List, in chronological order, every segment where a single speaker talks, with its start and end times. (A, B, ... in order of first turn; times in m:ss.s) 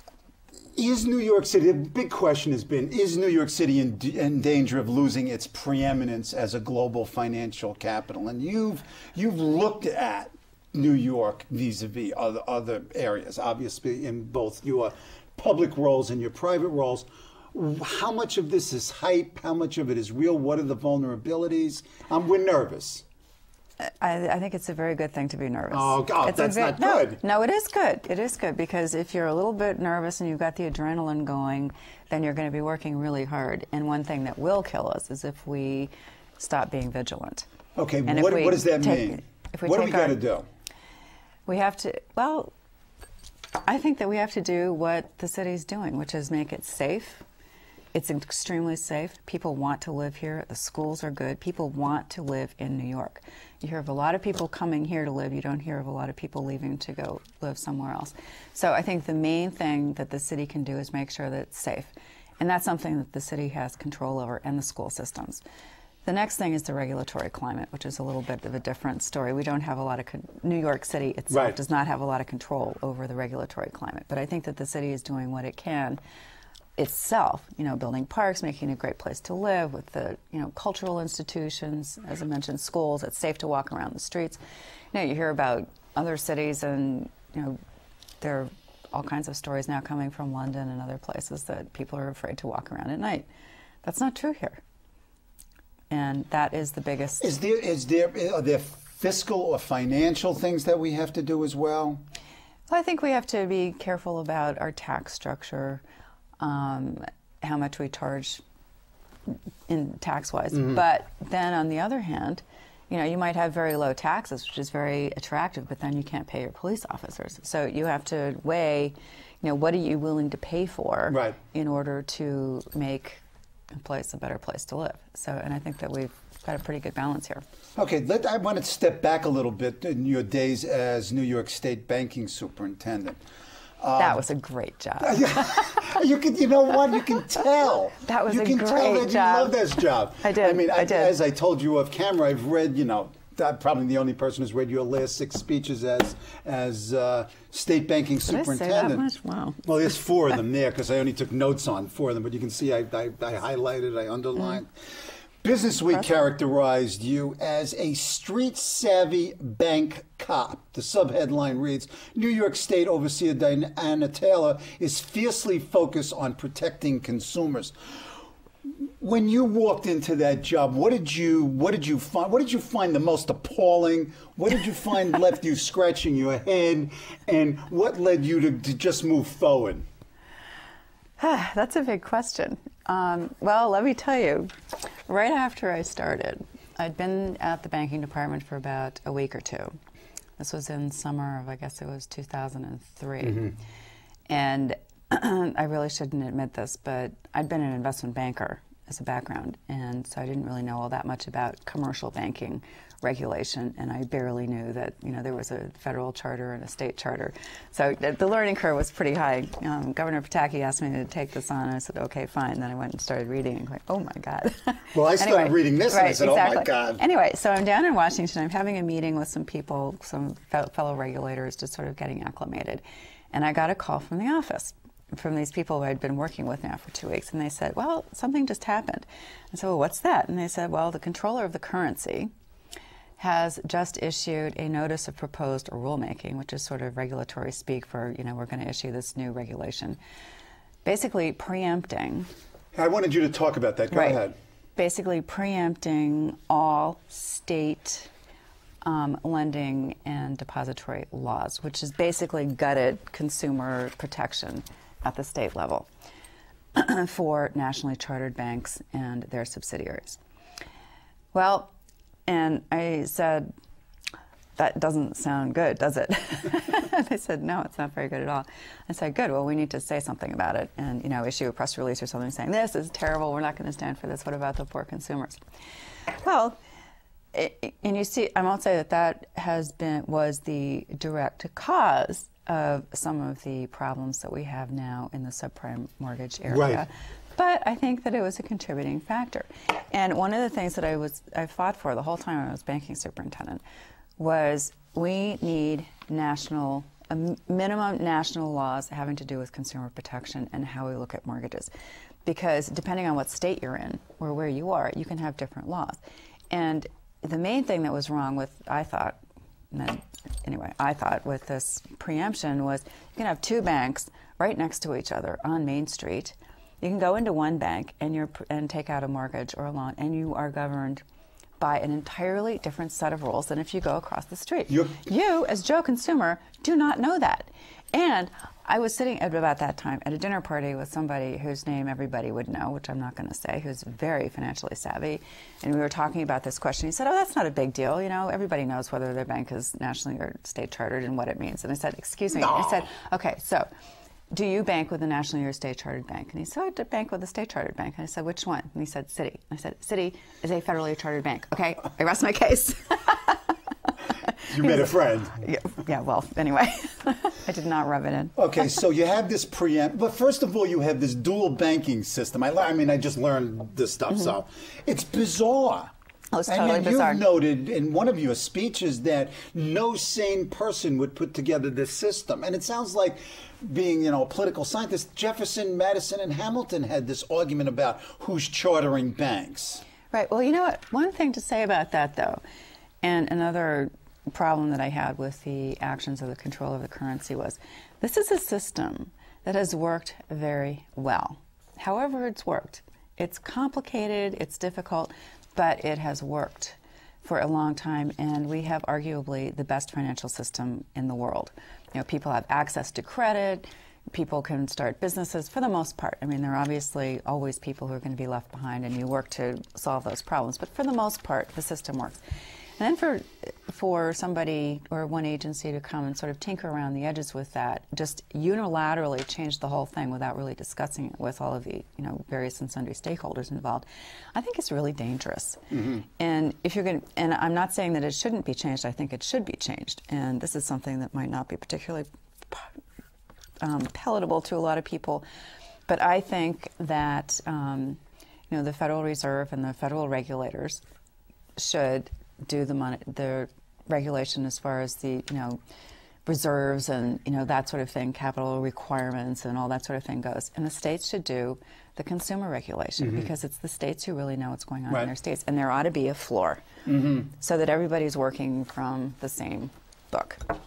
0:00.8-0:23.0 A
0:23.8-0:37.5 B
0:25.7-0:27.2 A
0:37.8-0:40.4 A
0:38.0-0:40.2 B
0:41.5-0:42.5 B
0:43.6-0:47.2 B
0:47.9-1:05.4 B
1:06.0-1:16.0 B
1:11.3-1:11.6 A
1:16.8-1:24.4 B
1:24.9-1:27.6 B
1:28.2-1:33.3 B
1:33.8-1:34.6 B
1:35.9-1:37.3 B
1:37.2-1:42.0 A
1:42.7-1:45.8 B
1:46.4-1:48.4 B
1:49.7-2:03.2 B
1:50.5-1:50.8 A
2:01.1-2:01.4 A
2:03.8-2:07.4 B
2:07.8-2:13.2 A
2:13.8-2:14.2 A
2:14.0-2:15.9 B
2:15.0-2:29.0 A
2:18.0-2:19.6 B
2:20.2-2:21.2 B
2:28.3-2:29.6 B
2:29.6-2:34.7 A
2:35.4-2:47.7 A
2:48.8-2:59.8 A
3:01.2-3:09.8 B
3:10.4-3:13.6 B
3:13.2-3:13.5 A
3:14.3-3:52.3 B
3:34.9-3:37.0 A
3:53.2-4:00.0 B
4:00.8-4:02.3 B
4:02.7-4:04.4 A
4:03.9-4:04.2 B
4:04.8-4:08.1 B
4:08.8-4:15.9 B
4:16.7-4:20.2 B
4:21.3-4:21.7 B
4:22.3-4:23.5 B
4:24.6-4:35.4 B
4:36.1-4:36.6 B
4:37.3-4:53.6 B
4:46.5-4:46.8 A
4:54.2-5:01.7 B
5:02.2-5:06.0 B
5:06.5-5:09.2 B
5:09.7-5:21.0 B
5:21.6-5:43.7 B
5:24.7-5:25.0 A
5:42.4-5:42.9 A
5:44.3-5:58.6 B
5:54.5-5:55.4 A
5:58.4-6:05.9 A
6:06.3-6:07.2 B
6:06.5-6:19.8 A
6:20.1-6:22.4 B
6:23.0-6:52.2 B
6:52.8-7:12.7 B
7:05.7-7:06.0 A
7:13.6-7:15.2 B
7:15.9-7:20.8 B
7:21.6-7:25.6 B
7:26.2-7:40.4 B
7:33.0-7:33.3 A
7:36.9-7:37.3 A